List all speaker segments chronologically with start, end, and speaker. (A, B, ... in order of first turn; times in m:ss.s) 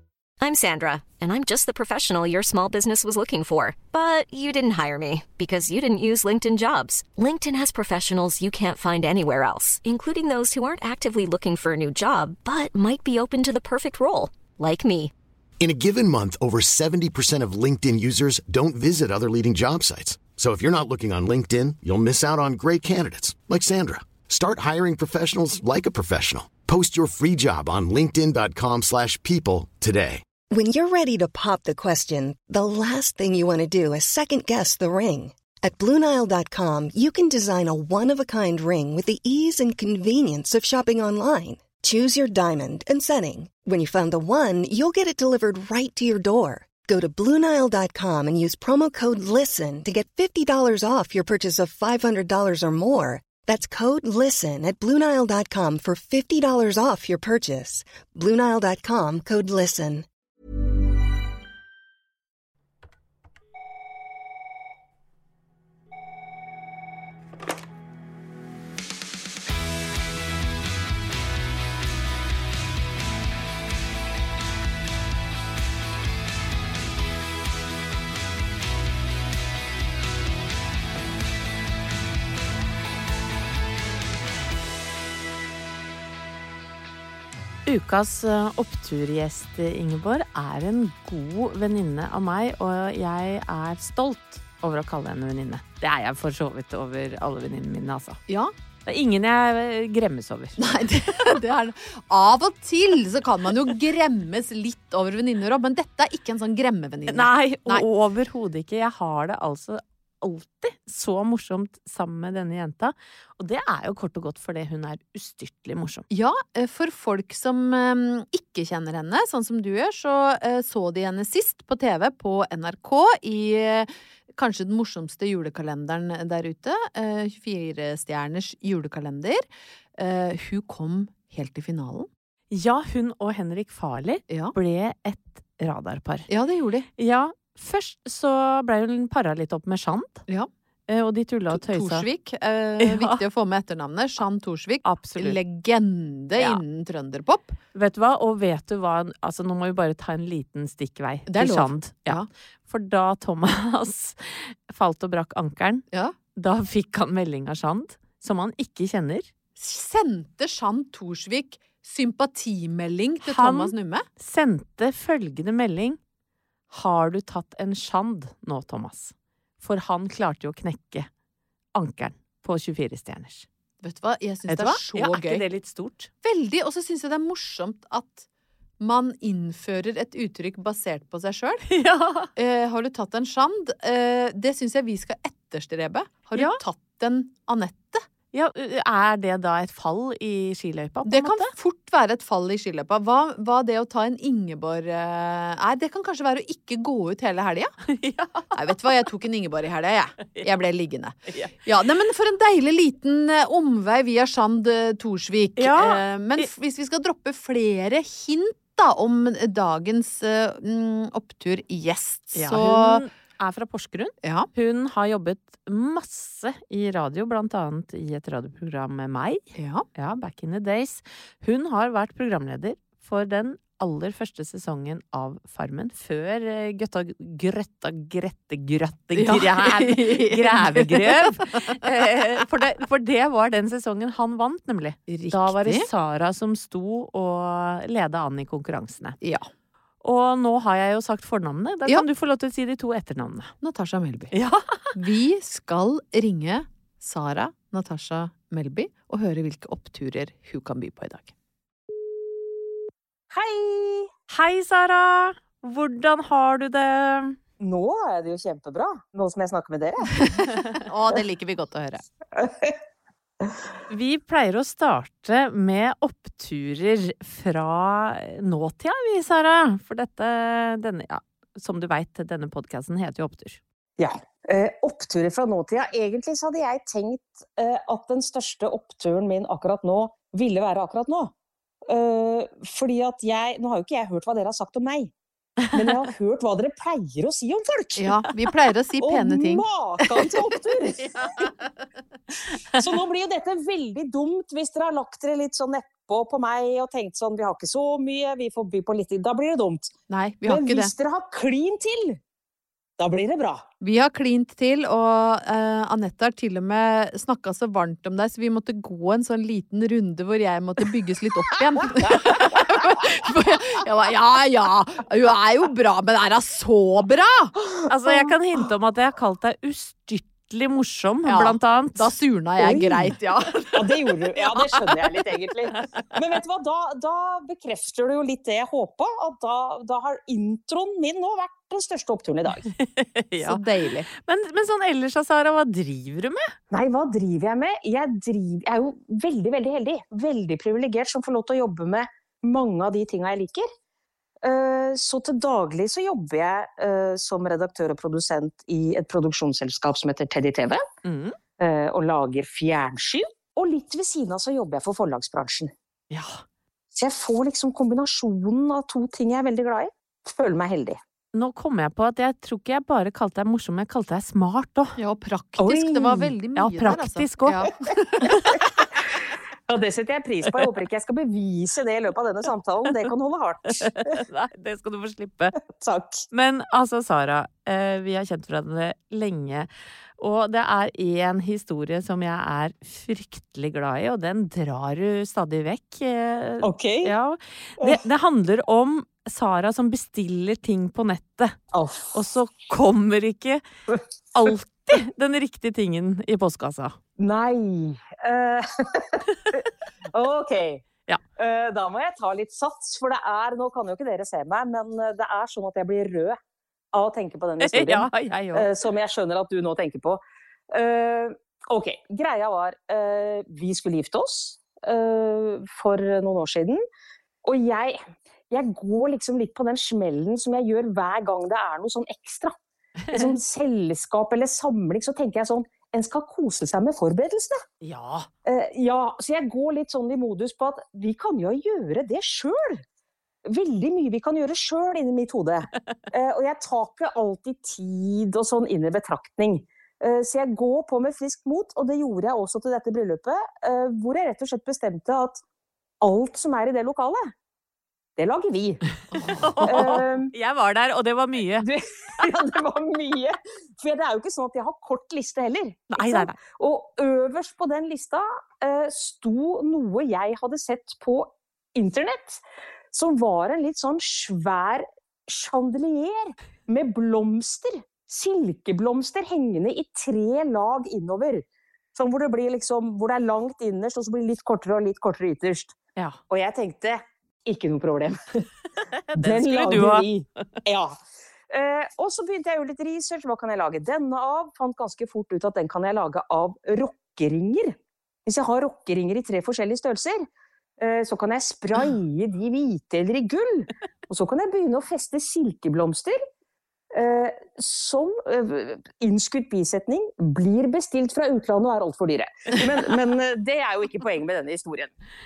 0:00.4-0:15.1 A
0:15.6-0:30.2 B
0:30.5-1:00.1 C
1:27.7-1:38.2 D
1:38.3-1:38.5 E
1:38.9-1:40.6 D
1:40.6-1:47.8 E
1:47.1-1:56.1 D
1:56.1-2:12.1 E
2:12.5-2:16.3 D
2:14.3-2:14.6 E
2:16.3-2:16.9 E
2:17.0-2:20.3 D
2:20.9-2:22.1 D
2:21.5-2:27.6 E
2:22.8-2:23.2 D
2:24.8-2:25.4 D
2:26.4-2:26.6 D
2:27.8-2:39.3 D
2:31.3-2:32.3 E
2:39.6-2:44.1 E
2:43.2-2:46.0 D
2:46.7-2:51.1 D
2:51.8-2:53.5 D
2:53.8-2:55.5 E
2:54.5-2:56.1 D
2:56.2-2:58.3 E
2:58.8-3:01.7 E
3:01.7-3:02.3 D
3:02.4-3:08.0 E
3:06.4-3:06.6 D
3:08.3-3:11.5 D
3:11.1-3:17.8 E
3:17.9-3:18.7 D
3:18.5-3:33.0 E
3:25.6-3:26.5 D
3:32.4-3:59.2 D
3:34.2-3:34.5 E
3:39.6-3:39.9 E
3:49.2-3:51.6 E
3:55.1-3:55.9 E
3:59.2-3:59.5 E
4:00.0-4:03.5 D
4:03.6-4:04.3 E
4:04.3-4:04.9 D
4:04.9-4:11.3 E
4:13.3-4:14.1 F
4:14.3-4:17.4 D
4:17.6-4:20.3 F
4:20.2-4:22.0 E
4:20.5-4:20.8 D
4:22.4-4:22.8 F
4:23.9-4:33.6 D
4:34.0-4:41.3 F
4:41.9-4:45.1 F
4:45.7-4:48.2 F
4:48.0-4:49.7 E
4:49.0-4:51.2 F
4:52.7-4:59.9 F
5:00.1-5:00.9 E
5:00.4-5:02.2 F
5:03.0-5:03.6 F
5:03.8-5:17.5 E
5:17.8-5:18.2 F
5:17.9-5:22.2 D
5:21.3-5:23.9 E
5:23.7-5:32.7 F
5:32.8-5:33.6 D
5:33.4-5:34.1 E
5:34.1-5:36.5 D
5:36.7-5:43.7 F
5:44.4-5:50.8 F
5:51.0-5:51.4 D
5:51.6-5:55.7 F
5:56.1-5:56.4 D
5:56.9-6:01.0 F
6:01.3-6:04.9 D
6:05.0-6:08.3 E
6:05.6-6:06.3 F
6:06.6-6:07.7 D
6:08.2-6:08.6 D
6:09.7-6:14.1 F
6:14.0-6:15.6 D
6:15.7-6:16.2 F
6:16.3-6:31.6 D
6:26.6-6:27.1 F
6:31.7-6:32.2 F
6:32.1-6:33.6 D
6:34.3-6:37.0 D
6:37.2-6:40.8 F
6:41.4-6:46.4 F
6:46.9-6:50.2 F
6:47.6-6:48.7 D
6:50.7-6:56.8 F
6:57.4-6:58.0 F
6:58.5-7:02.6 F
7:03.1-7:07.6 F
7:07.8-7:08.3 D
7:08.4-7:12.8 F
7:13.5-7:25.4 F
7:26.0-7:27.3 F
7:28.2-7:28.8 F
7:29.1-7:29.9 E
7:29.2-7:31.7 D
7:29.6-7:30.3 F
7:31.6-7:55.7 F
7:35.9-7:36.4 D
7:56.3-7:58.4 F
7:59.1-8:00.1 D
7:59.2-8:01.0 F
8:01.5-8:10.2 F
8:10.8-8:16.2 F
8:16.9-8:24.9 F